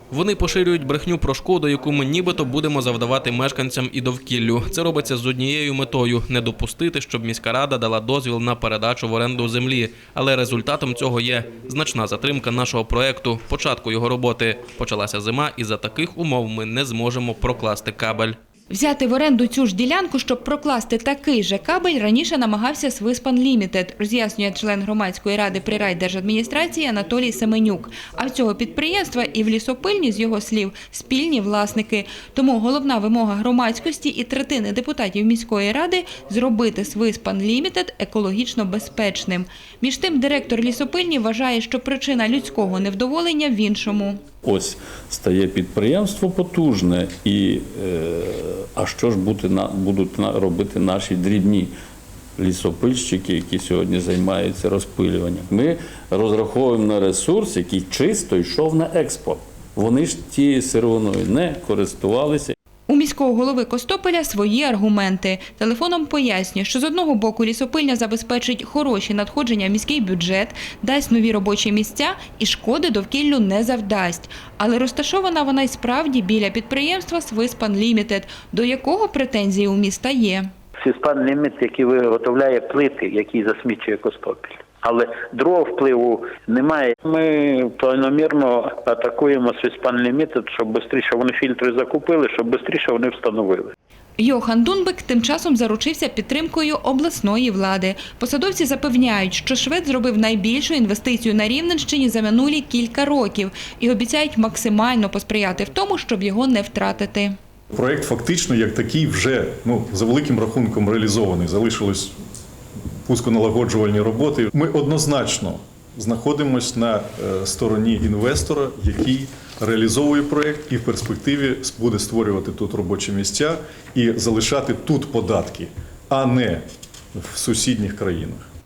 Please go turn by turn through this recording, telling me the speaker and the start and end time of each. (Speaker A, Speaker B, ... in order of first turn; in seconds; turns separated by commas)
Speaker A: 0.1-18.4, Speaker B: 18.7-44.2, Speaker C: 44.4-51.7, Speaker C: 52.4-62.5, Speaker B: 62.9-80.5, Speaker D: 80.8-93.7, Speaker B: 94.2-107.3, Speaker E: 107.7-112.1, Speaker E: 113.0-128.4